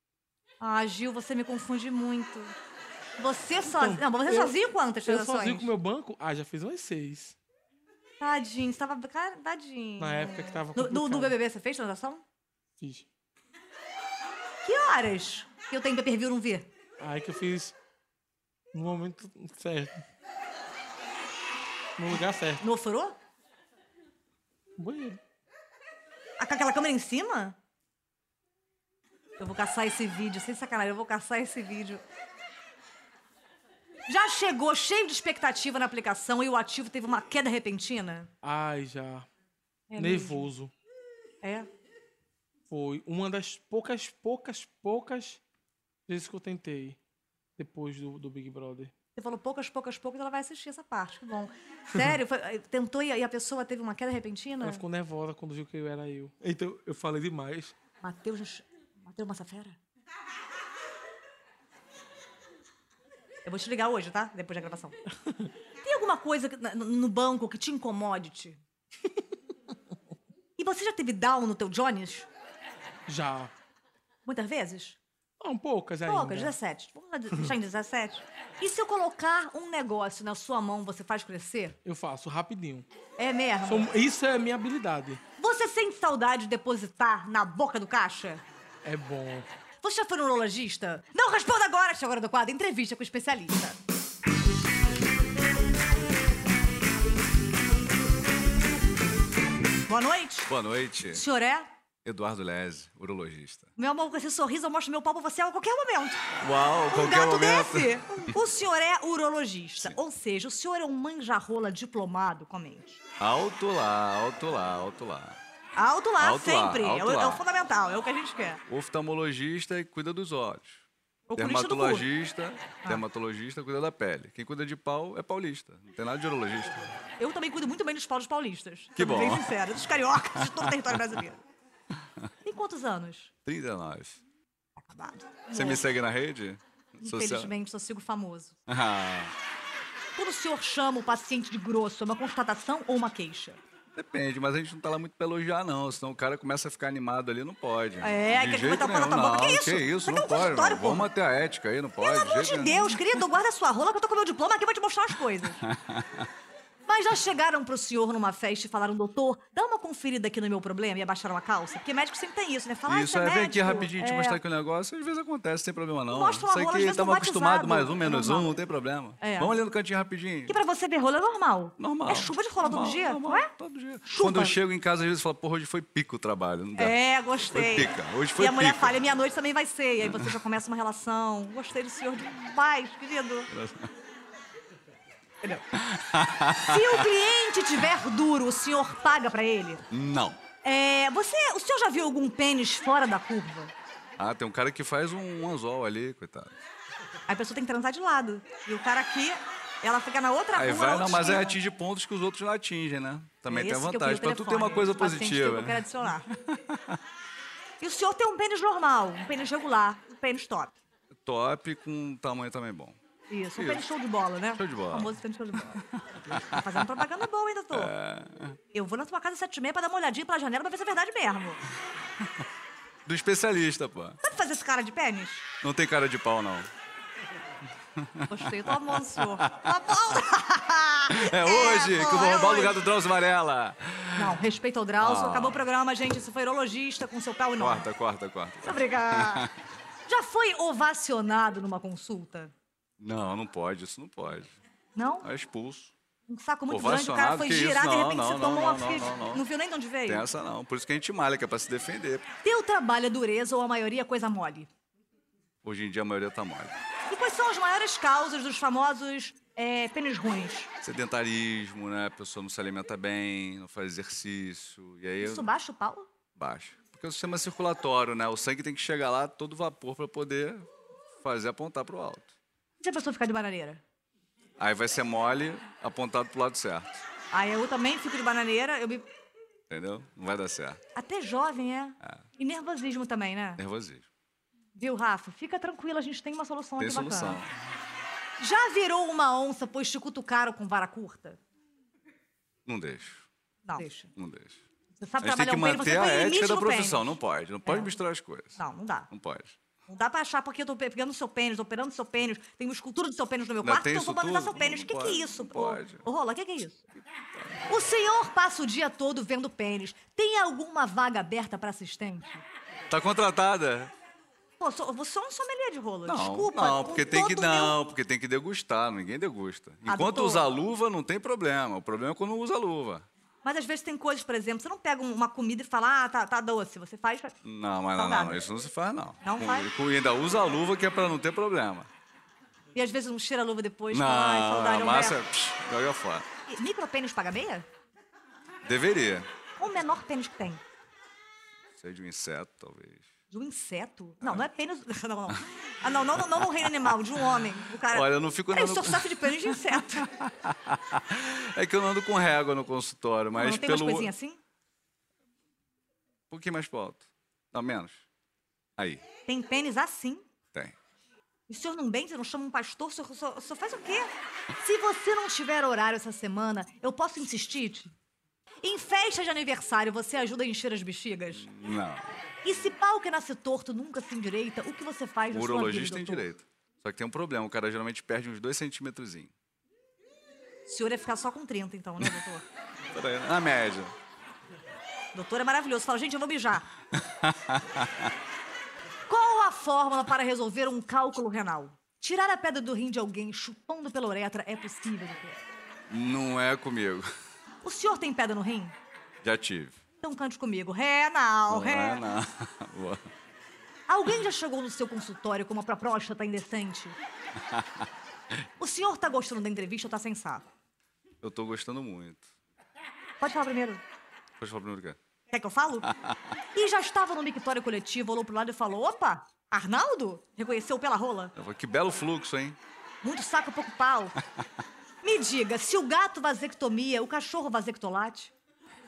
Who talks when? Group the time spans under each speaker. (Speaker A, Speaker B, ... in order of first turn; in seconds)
Speaker A: 0.6-2.5, 3.2-5.7, 8.2-12.2, 14.6-16.7, 22.6-23.1, 26.4-27.6, 29.4-32.0, 34.1-38.3, 39.9-40.5, 41.4-41.7, 49.1-54.8, 58.0-59.8, 63.4-65.0, 65.8-68.6, 70.6-72.3, 74.2-75.0, 76.0-81.8, 83.2-83.9, 85.4-88.4, 89.8-93.8, 99.9-100.5, 101.1-101.7, 103.8-106.2, 106.9-113.0, 115.8-118.6, 121.3-122.1, 127.2-131.4, 132.4-133.3, 134.8-135.8, 137.0-138.6, 140.2-143.6, 148.0-151.1, 152.0-155.6, 156.9-164.4, 166.1-168.5, 169.2-169.5, 170.5-173.5, 174.0-174.6, 176.8-183.5, 186.6-189.8, 190.6-193.7, 197.3-201.6, 203.5-206.2, 207.8-210.7, 213.3-215.8, 216.5-217.9, 218.7-221.6, 224.2-225.4, 228.3-232.8, 234.2-237.8, 238.6-239.4, 240.1-242.5, 244.9-245.3, 246.3-250.2, 252.4-254.7, 257.1-260.7, 265.2-266.1, 272.8-273.8, 277.3-279.1, 280.9-283.6, 284.8-287.4, 288.4-291.4, 293.6-294.1, 295.0-297.9, 298.6-299.1, 299.9-306.8, 307.7-312.4, 314.6-317.8, 319.9-320.5, 323.4-327.3, 327.9-328.4, 329.2-329.7, 332.7-335.2, 336.5-337.6, 339.6-340.6, 343.3-350.1, 353.3-354.4, 359.3-360.2, 361.5-367.9, 368.6-371.5, 372.4-376.3, 380.6-382.4, 385.1-386.6, 389.1-395.4, 397.6-398.7, 400.0-402.0, 403.9-407.0, 408.6-410.5, 413.2-413.8, 415.3-415.9, 416.5-421.3, 423.0-424.2, 425.0-428.3
Speaker B: 3.6-4.5, 5.0-7.4, 10.0-11.4, 12.8-13.1, 17.0-17.7, 18.7-20.0, 22.0-22.6, 24.8-25.2, 38.4-39.3, 40.0-40.7, 42.7-45.4, 46.1-47.0, 47.6-48.9, 54.6-57.7, 65.2-65.5, 73.1-73.5, 75.4-76.5, 81.8-82.9, 83.6-85.2, 88.8-89.5
Speaker C: 100.5-101.2, 102.0-103.7, 106.4-108.0, 113.2-115.4, 116.2-117.4, 118.7-120.8, 121.4-126.8, 129.0-129.5, 133.4-134.2, 135.5-137.5, 138.7-139.3, 143.9-153.0, 155.6-156.3, 162.8-170.6, 171.8-176.9, 177.5-179.0, 183.5-183.9, 185.8-187.1, 189.9-190.4, 194.2-196.5, 200.5-207.0, 211.2-213.0, 213.6-213.8, 214.6-215.1, 217.7-218.6, 223.1-224.2, 225.6-226.7, 228.0-229.5, 231.1-234.3, 235.0-235.6, 237.6-239.5, 243.0-244.5, 245.2-245.9, 246.7-249.4, 250.1-252.3, 255.6-256.8, 260.8-265.5, 266.4-272.3, 274.6-276.9, 279.7-280.8, 283.6-284.1, 286.8-287.5, 292.6-293.2, 294.1-294.6, 295.2-298.6, 299.1-299.6, 303.6-306.0, 312.9-313.9, 316.1-323.1, 327.4-331.9, 333.9-336.2, 338.6-339.3, 341.8-343.0, 347.9-349.4, 350.0-354.1, 356.3-358.0, 358.8-359.0, 371.3-372.1, 375.3-379.3, 382.9-383.9, 387.1-388.1, 395.9-397.1, 399.2-399.8, 401.5-403.1, 411.2-412.2, 414.4-415.0, 421.4-422.6